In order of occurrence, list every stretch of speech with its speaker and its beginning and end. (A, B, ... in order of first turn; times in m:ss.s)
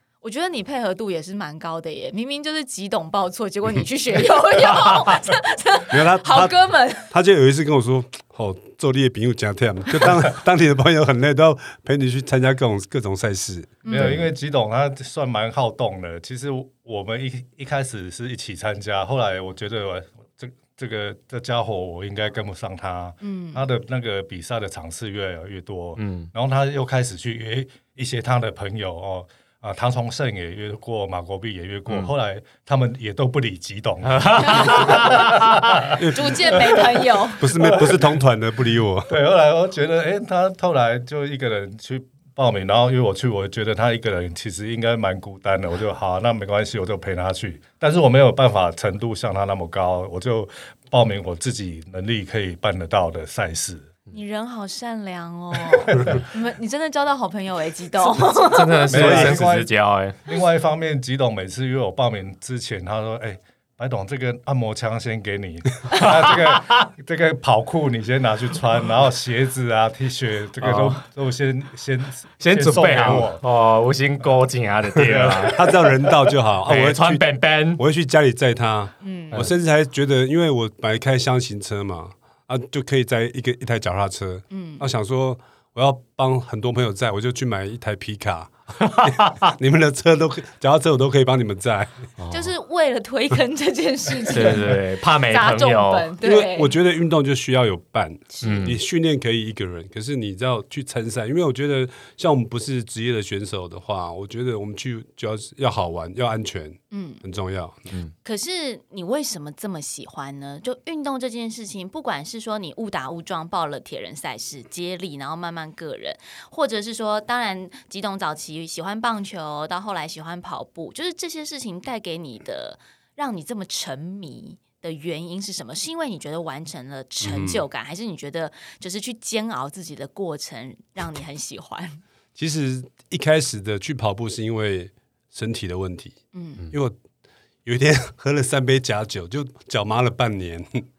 0:00.2-0:07.1 A
0:05.9-0:14.1 B
0:13.8-0:14.2 A
0:13.8-0:35.9 C
0:23.2-0:23.6 A
0:26.0-0:26.3 D
0:34.0-0:35.6 D
0:34.4-0:35.1 A
0:36.0-0:36.8 B
0:36.1-0:37.5 A
0:36.4-0:38.2 C
0:37.4-0:39.1 B
0:39.1-0:53.9 C
0:54.1-0:58.9 A
0:55.7-0:56.2 C
0:58.3-1:00.2 D
0:58.9-0:59.7 C
0:58.9-0:59.4 B
1:00.2-1:13.4 C
1:05.9-1:06.9 D
1:10.6-1:11.0 D
1:12.4-1:15.6 D
1:15.0-1:17.2 B
1:15.0-1:15.5 C
1:16.6-1:17.8 D
1:17.8-1:32.1 B
1:19.0-1:19.5 A
1:24.5-1:24.8 A
1:28.8-1:29.5 D
1:32.2-1:32.5 D
1:32.3-1:36.7 A
1:34.3-1:36.1 D
1:36.2-1:47.9 B
1:38.3-1:38.7 A
1:38.4-1:38.8 D
1:46.9-1:47.2 A
1:48.2-2:12.0 A
2:07.2-2:07.6 B
2:12.4-2:16.2 B
2:16.3-2:16.6 A
2:16.7-2:17.0 B
2:17.6-2:20.8 B